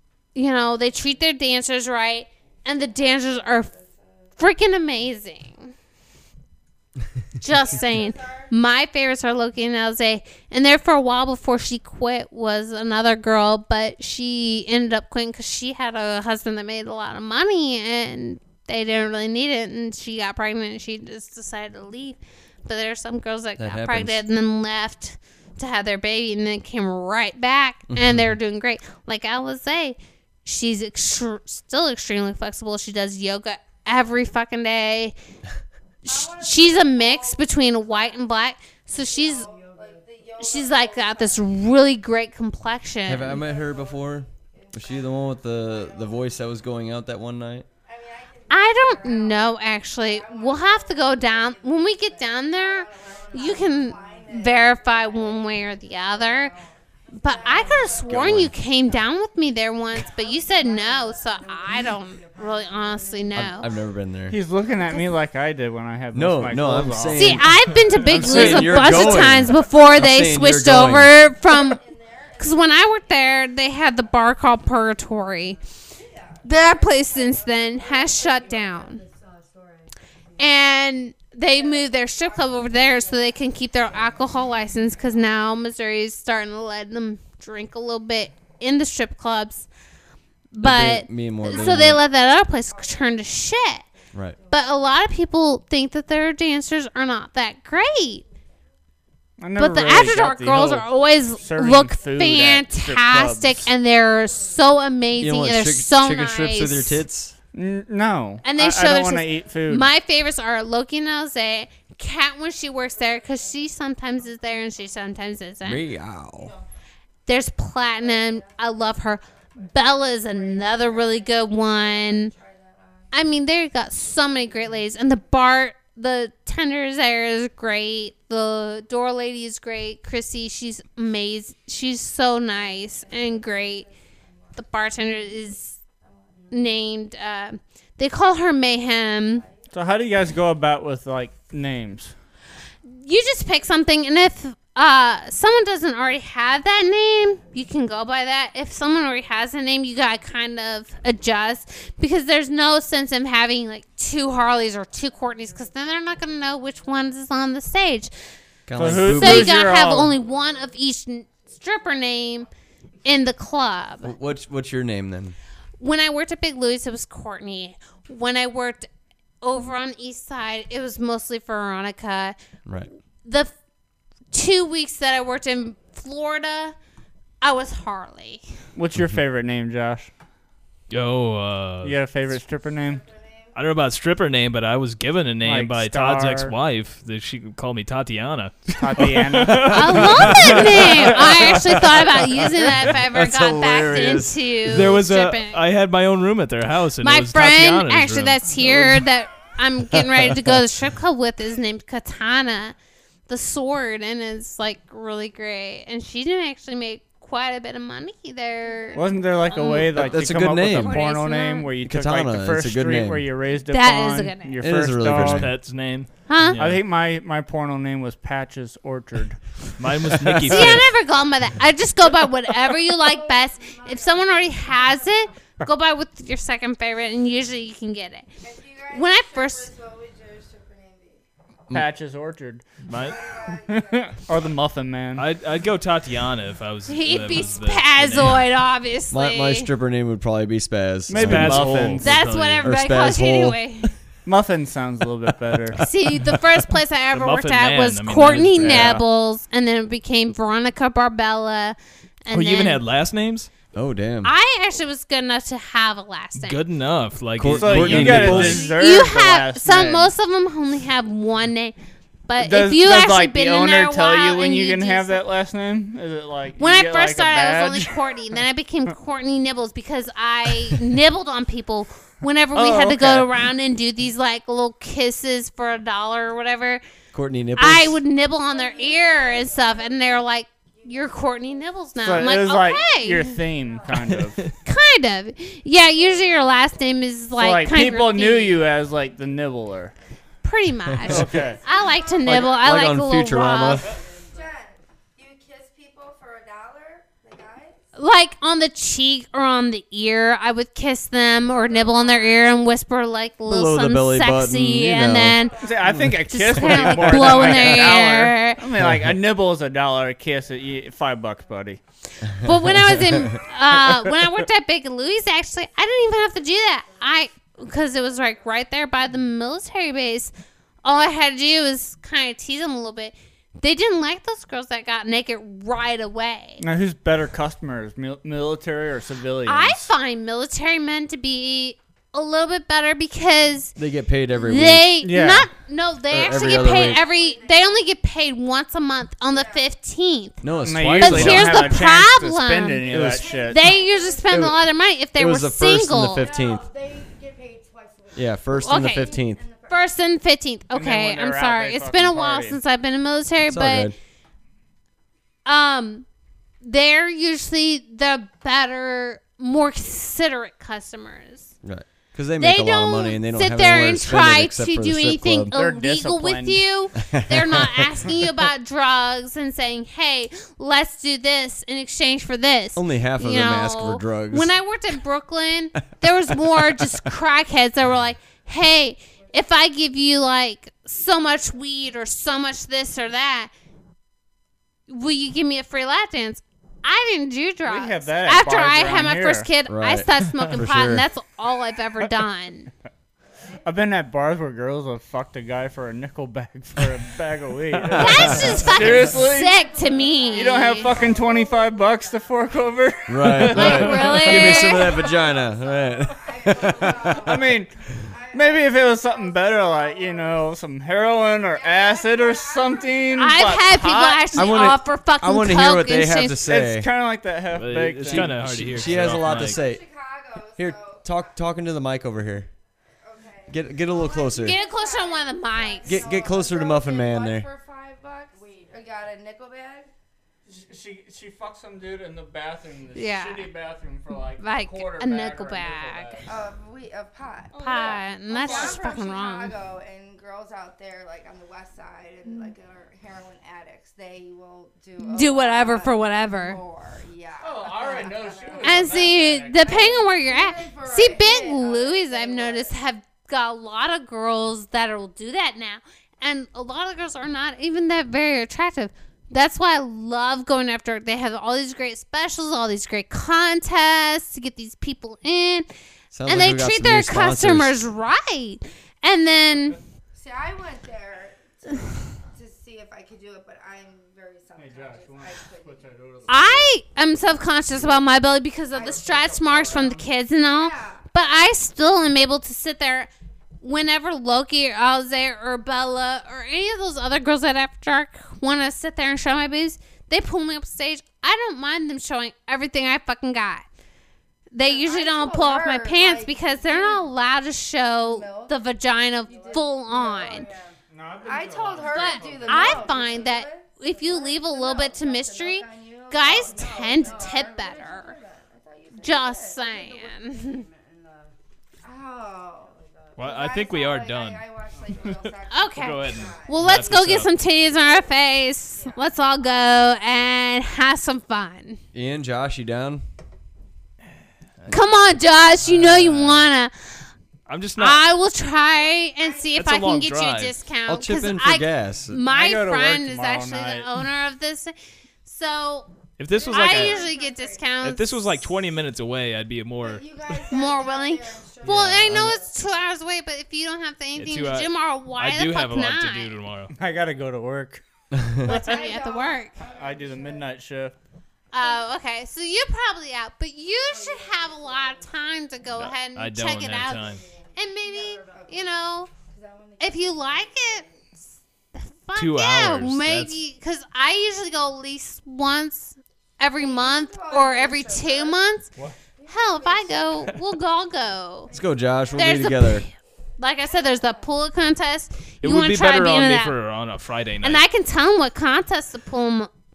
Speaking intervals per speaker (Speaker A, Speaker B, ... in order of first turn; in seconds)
Speaker A: 0.3-3.7, 4.4-5.7, 7.4-35.1, 36.0-39.5, 40.4-43.4, 48.5-56.5, 57.1-63.7, 67.1-71.8, 72.4-75.6, 76.4-79.0, 80.4-89.7, 90.5-93.8, 94.5-98.2, 99.6-107.0, 108.4-115.8, 117.2-122.3, 123.1-133.9, 134.6-135.8, 136.5-139.4, 142.9-158.1, 158.9-162.5, 163.0-164.1, 165.8-168.9, 169.4-172.4, 173.2-173.5, 174.3-176.7, 177.4-178.4, 189.7-195.6, 197.0-202.8, 203.3-210.2, 210.8-211.7, 213.7-214.6, 216.3-216.6, 220.5-228.3, 228.9-229.7, 236.9-239.7, 242.0-243.9, 245.8-252.8, 254.2-256.6, 258.4-261.7, 262.3-265.2, 266.6-276.8, 277.6-283.3, 284.6-288.7, 290.4-293.9, 297.9-308.6, 312.4-320.3, 320.8-326.6, 329.4-333.8, 334.3-340.4, 340.9-342.9, 343.4-346.2, 348.5-353.9, 355.4-356.1, 356.6-361.5, 362.4-383.5, 384.9-392.7, 397.9-401.0, 403.5-405.0, 413.1-416.4, 424.4-426.1, 432.9-433.5, 434.4-436.2, 437.6-439.5, 445.0-446.6, 448.6-465.7, 466.2-469.8, 476.3-483.1, 483.6-493.6, 494.5-500.5, 501.8-508.1, 509.0-510.6, 515.5-521.8, 524.7-526.7, 527.8-534.7, 535.2-535.9, 536.5-538.4, 540.5-546.3, 548.4-549.5, 551.5-559.1, 559.8-560.9, 561.7-568.7, 569.3-571.5, 572.1-576.5, 577.4-579.5
Speaker B: 2.6-4.4, 7.4-8.5, 36.0-38.3, 38.9-41.6, 43.1-46.7, 47.8-59.1, 59.9-63.8, 64.6-65.0, 68.9-69.9, 71.2-80.5, 81.4-85.3, 91.5-91.9, 92.5-94.9, 104.3-104.6, 112.5-115.2, 116.3-116.7, 117.9-123.1, 123.9-125.2, 132.4-136.6, 138.9-139.7, 155.2-155.7, 159.9-160.7, 161.4-162.5, 182.5-183.6, 208.7-209.4, 223.0-225.3, 228.4-231.2, 232.9-234.2, 278.4-284.0, 285.9-286.8, 291.3-292.9, 293.8-297.8, 301.4-302.7, 305.3-305.9, 316.2-317.0, 318.0-318.4, 336.1-337.9, 339.2-339.7, 342.9-344.5, 346.2-349.9, 379.2-379.6, 398.1-410.5, 411.4-413.6, 418.7-421.5, 423.0-429.9, 436.3-452.7, 470.1-475.9, 480.5-481.0, 494.6-497.1, 498.0-498.6, 499.3-516.9, 517.5-518.1, 518.8-519.7, 528.7-529.6, 536.3-537.7, 539.8-542.5, 548.5-550.5, 551.6-551.9, 553.9-555.9, 557.0-561.2, 566.5-568.4, 569.2-570.3, 571.5-572.3, 573.7-574.2
Speaker C: 23.6-24.2, 27.9-28.3, 43.1-47.6, 58.1-58.5, 63.3-64.4, 66.1-71.1, 90.6-92.0, 105.2-107.3, 115.6-116.5, 158.7-159.6, 164.0-165.4, 192.7-194.9, 199.9-200.6, 209.9-211.0, 211.8-213.3, 214.6-215.5, 220.2-220.8, 239.1-242.0, 242.6-243.9, 248.6-249.0, 253.7-254.3, 257.4-258.7, 277.1-278.0, 290.9-291.4, 292.2-293.9, 303.4-307.8, 308.8-309.1, 312.4-313.3, 333.8-334.9, 336.1-337.0, 340.4-341.8, 342.9-343.3, 344.3-344.6, 345.1-346.7, 348.1-349.4, 353.4-353.9, 361.6-365.5, 367.0-367.9, 372.8-374.5, 389.7-391.1, 397.8-398.5, 403.1-407.4, 414.3-416.9, 418.0-419.8, 420.6-422.5, 423.5-424.6, 425.9-427.4, 466.1-467.8, 521.9-523.0, 530.9-532.2, 571.5-572.9
Speaker D: 64.3-67.4, 68.2-68.8, 99.4-103.7, 107.5-109.9, 139.7-142.1, 158.7-160.2, 178.7-180.1, 181.8-183.0, 185.4-186.5, 188.8-191.5, 208.9-215.5, 216.6-219.4, 231.7-232.7, 233.7-235.3, 241.1-242.1, 244.2-245.8, 248.6-249.0, 257.5-260.1, 262.4-268.0, 272.5-273.3, 282.0-284.5, 287.3-289.9, 291.1-291.6, 305.6-311.8, 313.8-314.1, 326.6-329.9, 335.0-335.5, 340.6-343.7, 350.7-352.6, 365.5-366.6, 387.6-389.5, 393.6-399.6, 400.3-404.3, 407.1-407.7, 408.3-414.7, 416.4-418.4, 430.4-436.3, 437.5-438.9, 447.4-449.8, 469.5-469.8, 474.6-476.7, 477.7-478.0, 478.7-480.1, 500.9-503.1, 506.3-506.9, 532.1-534.0, 546.7-547.8, 548.4-548.9, 549.8-550.9
Speaker E: 180.9-182.0, 183.5-191.6, 194.7-199.0, 215.0-216.8, 219.8-220.9, 232.9-233.2, 235.1-238.4, 241.1-242.7, 247.1-248.8, 252.3-253.5, 256.3-258.7, 417.5-419.6, 513.2-514.4, 515.0-517.3, 525.6-526.5, 527.5-528.0, 529.5-530.6, 536.2-537.0, 537.8-540.0, 541.6-542.3, 544.1-546.7, 555.8-557.2, 562.1-563.4, 575.4-577.6